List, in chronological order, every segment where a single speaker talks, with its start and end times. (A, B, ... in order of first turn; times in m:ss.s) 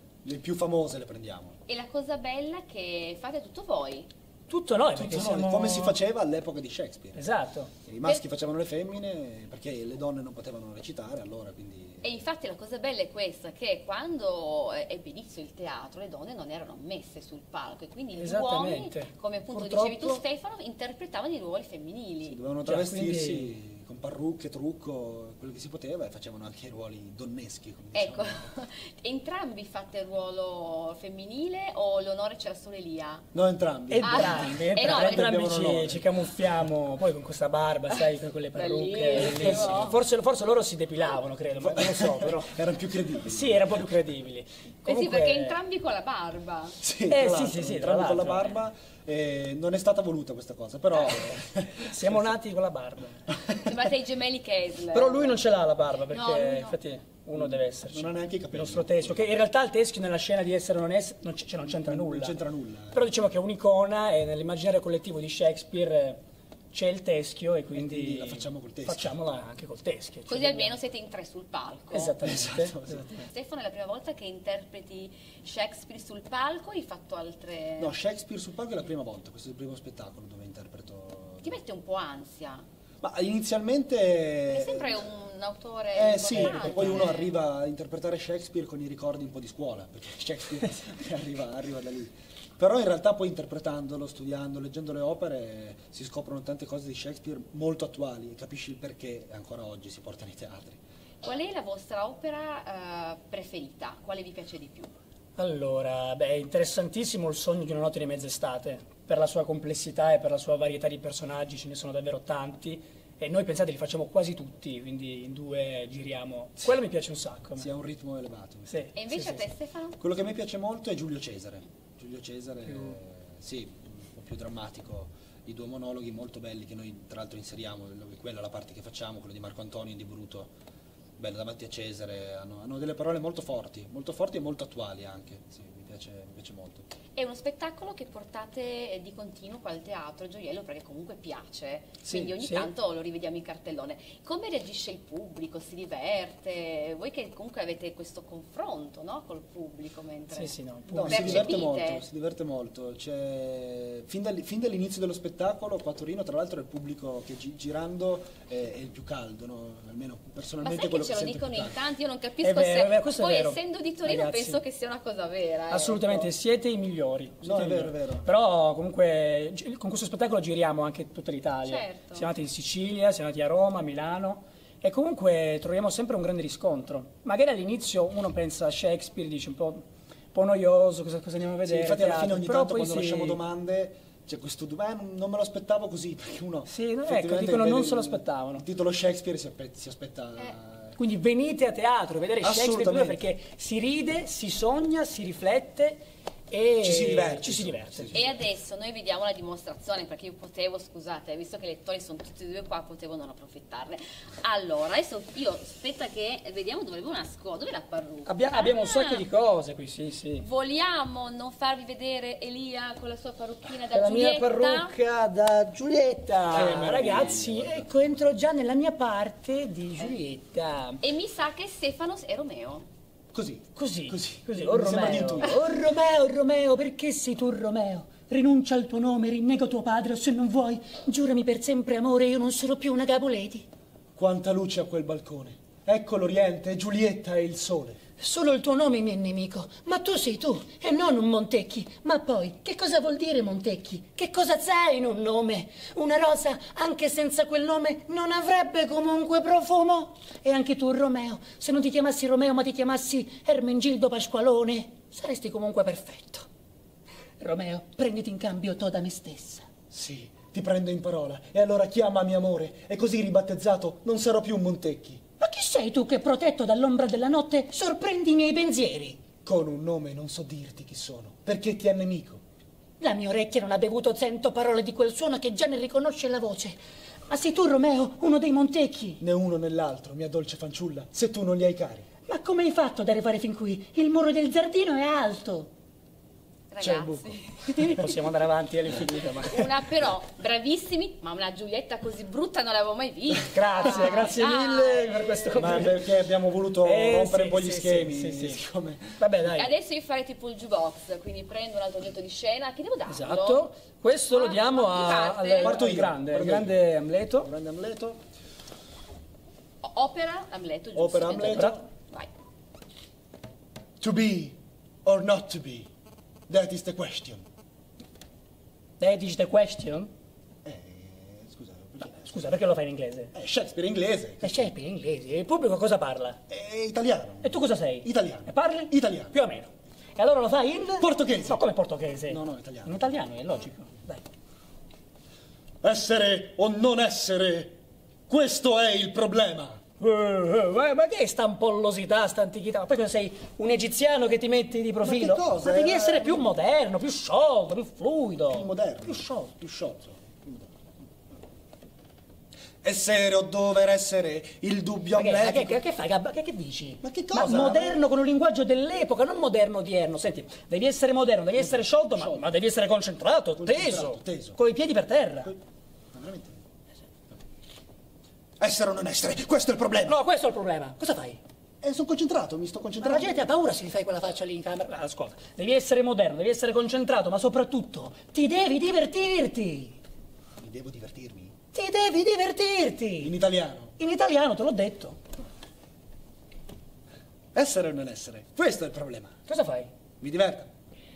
0:00.2-0:01.6 A
0:01.7-0:04.1 B
0:04.5-0:06.0 C
0:04.9-0:07.2 A
0:07.2-0:07.7 C
0:07.8-0:12.1 A
0:12.0-0:22.4 B
0:18.2-0:20.2 C
0:22.2-0:28.4 A
0:22.6-0:23.5 C
0:27.9-0:33.2 B
0:33.3-0:36.7 A
0:33.9-0:42.5 C
0:34.0-0:35.4 B
0:38.5-0:40.0 B
0:39.2-0:39.9 A
0:41.6-0:43.8 A
0:43.2-0:45.6 C
0:44.8-0:46.8 B
0:46.8-0:52.4 A
0:47.1-0:48.6 C
0:51.8-0:53.3 C
0:53.3-0:53.8 A
0:53.6-0:55.4 B
0:54.9-1:02.4 C
0:56.1-0:56.8 B
0:57.4-0:59.3 A
1:01.6-1:03.1 A
1:02.9-1:06.2 C
1:06.7-1:10.8 C
1:07.8-1:09.1 A
1:10.3-1:12.2 B
1:11.9-1:13.1 C
1:12.2-1:13.2 A
1:13.1-1:17.9 B
1:17.8-1:21.6 A
1:21.4-1:22.6 B
1:23.0-1:24.9 A
1:24.5-1:27.3 B
1:25.9-1:40.8 A
1:26.3-1:27.1 C
1:41.2-1:44.9 B
1:45.4-1:57.7 C
1:57.6-1:59.5 A
1:59.0-2:00.0 B
2:00.0-2:10.5 A
2:02.7-2:03.0 C
2:11.2-2:16.9 A
2:17.2-2:32.1 B
2:22.0-2:22.7 C
2:30.3-2:31.6 C
2:30.9-2:41.8 A
2:40.6-2:46.2 B
2:42.4-2:44.6 C
2:45.7-3:03.4 C
2:47.4-2:48.3 A
2:51.6-2:52.3 B
3:01.6-3:11.0 A
3:06.7-3:08.6 C
3:11.0-3:18.3 C
3:12.4-3:13.2 A
3:16.8-3:18.4 A
3:18.1-3:29.3 B
3:28.3-3:30.4 C
3:30.4-3:34.9 B
3:33.9-3:41.0 C
3:36.5-3:38.0 A
3:41.0-3:42.9 B
3:43.3-3:45.6 A
3:43.8-3:53.7 C
3:54.2-3:58.0 A
3:58.2-4:16.5 C
4:17.4-4:19.6 C
4:19.9-4:25.2 A
4:25.4-4:29.2 C
4:29.4-4:32.4 A
4:33.0-4:39.2 C
4:39.2-4:42.1 A
4:42.3-4:45.7 C
4:46.7-4:48.1 B
4:46.8-4:48.1 A
4:48.0-4:49.8 C
4:49.4-4:55.9 B
4:53.5-4:56.1 C
4:55.5-4:59.2 A
4:56.8-4:58.6 C
4:59.2-4:59.7 C
4:59.5-5:03.7 B
5:03.1-5:07.5 C
5:04.3-5:05.8 B
5:05.6-5:08.2 A
5:09.8-5:12.3 B
5:10.9-5:11.8 A
5:11.4-5:11.8 C
5:14.0-5:15.9 A
5:16.5-5:17.4 A
5:19.0-5:20.1 C
5:20.6-5:22.4 A
5:22.1-5:23.3 C
5:23.3-5:24.7 A
5:24.4-5:26.4 C
5:26.5-5:29.3 A
5:27.4-5:34.2 C
5:31.0-5:31.6 A
5:32.3-5:33.0 A
5:35.8-5:39.8 A
5:40.0-5:49.5 C
5:45.0-5:46.5 A
5:48.5-5:50.7 A
5:52.8-5:55.8 A
5:55.1-6:05.5 C
5:57.0-5:58.0 A
6:01.6-6:02.5 A
6:03.6-6:04.6 A
6:06.1-6:06.6 A
6:08.6-6:10.2 A
6:10.0-6:11.4 C
6:11.8-6:13.5 A
6:13.0-6:20.0 C
6:20.6-6:21.6 A
6:21.7-6:23.3 C
6:23.2-6:23.9 A
6:24.0-6:25.2 C
6:27.5-6:29.4 A
6:29.5-6:29.9 C
6:30.2-6:30.7 A